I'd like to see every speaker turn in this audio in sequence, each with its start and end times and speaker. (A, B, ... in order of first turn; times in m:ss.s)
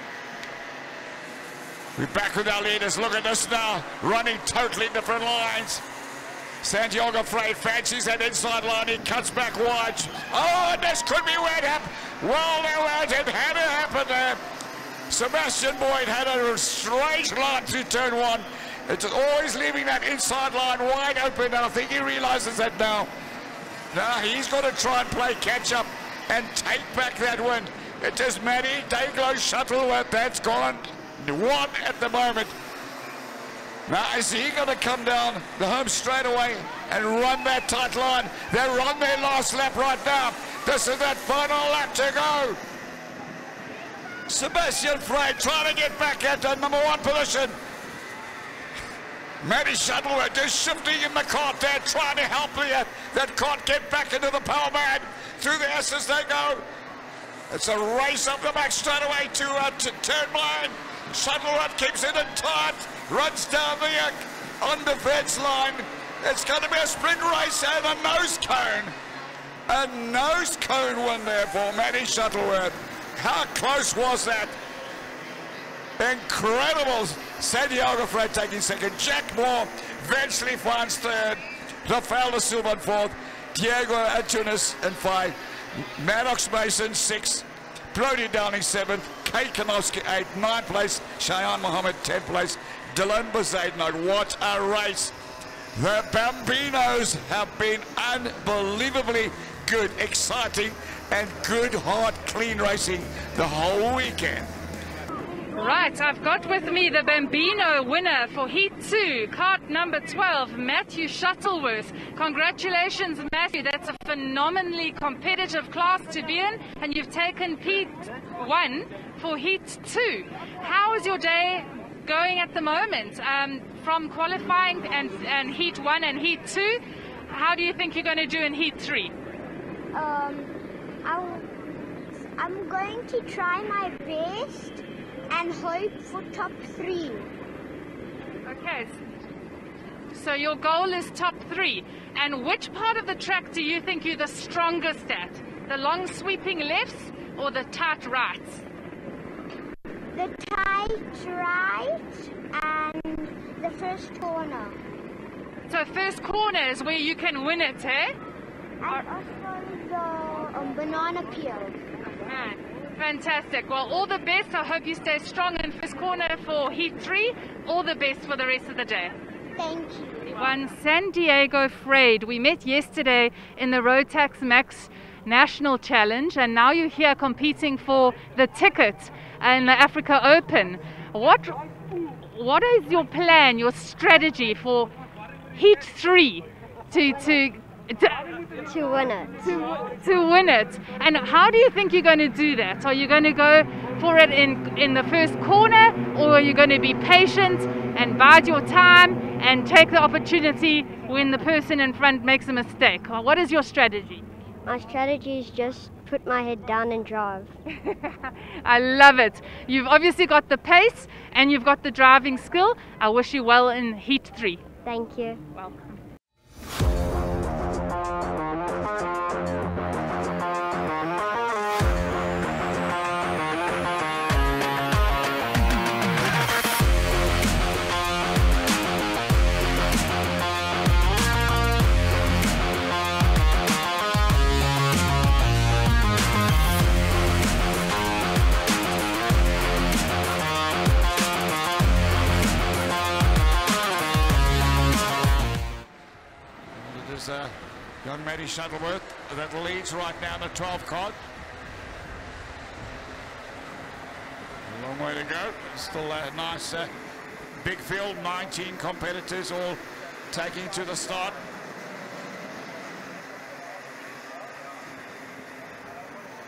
0:02.0-0:05.8 A
0:06.6-0:14.4 A
0:15.1-0:23.1 A
0:23.9-0:32.6 A
0:33.9-0:42.6 A
0:44.3-0:47.6 A
0:49.4-0:56.6 A
0:57.5-1:09.0 A
1:09.7-1:14.6 A
1:16.0-1:35.2 A
1:35.7-1:44.5 A
1:45.5-2:09.1 B
2:09.9-2:10.5 C
2:11.0-2:11.5 C
2:12.4-2:17.3 C
2:18.4-2:19.0 B
2:20.1-2:28.6 B
2:30.1-2:34.8 C
2:35.7-2:38.1 B
2:38.8-2:41.8 C
2:42.5-2:49.1 B
2:49.6-2:50.3 C
2:50.3-3:01.6 B
3:02.2-3:04.9 B
3:05.5-3:08.2 B
3:08.7-3:09.3 C
3:09.4-3:24.2 B
3:24.6-3:27.5 C
3:27.9-3:34.6 B
3:34.8-3:35.4 C
3:35.6-3:36.0 B
4:06.7-4:11.2 A
4:14.6-4:16.9 A
4:17.6-4:21.4 A